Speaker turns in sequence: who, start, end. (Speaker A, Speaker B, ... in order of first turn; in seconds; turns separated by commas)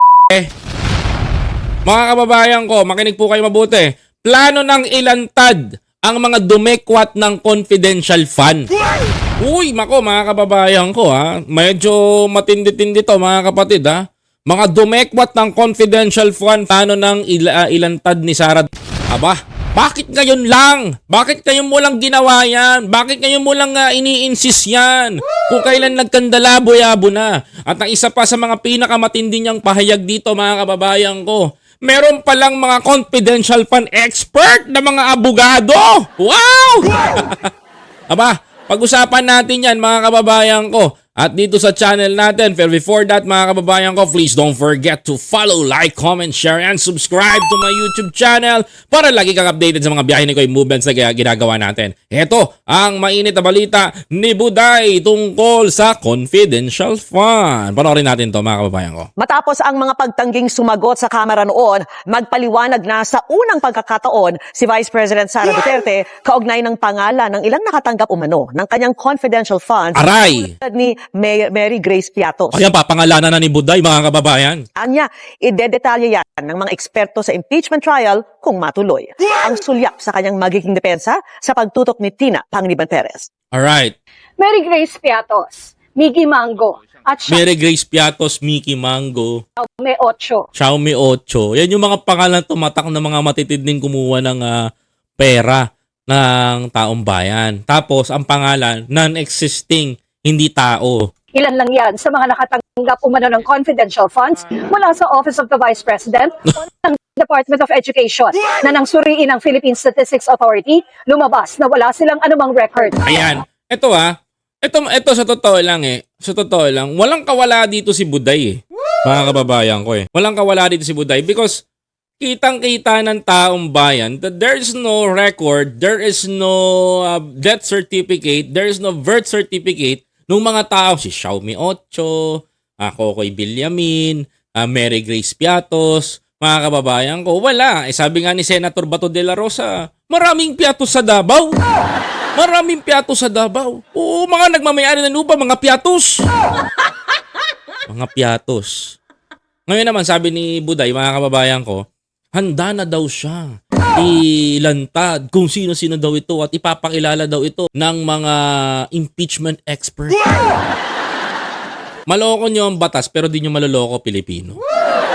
Speaker A: 1.9-8.7, Speaker A: 9.4-37.5, Speaker A: 38.1-59.1, Speaker B: 59.2-72.6, Speaker A: 70.0-70.5, Speaker A: 72.5-74.7, Speaker B: 74.8-83.3, Speaker A: 83.5-84.0, Speaker C: 84.4-87.4, Speaker A: 87.3-89.4, Speaker C: 89.6-90.5, Speaker A: 90.5-94.6, Speaker A: 95.2-101.0, Speaker C: 101.3-113.1, Speaker A: 113.0-114.1, Speaker A: 114.6-121.6, Speaker A: 122.2-132.3, Speaker A: 132.8-141.5, Speaker A: 142.4-146.2, Speaker A: 147.9-148.9, Speaker A: 149.7-151.8, Speaker A: 152.3-158.4, Speaker A: 158.9-160.2, Speaker A: 162.1-164.6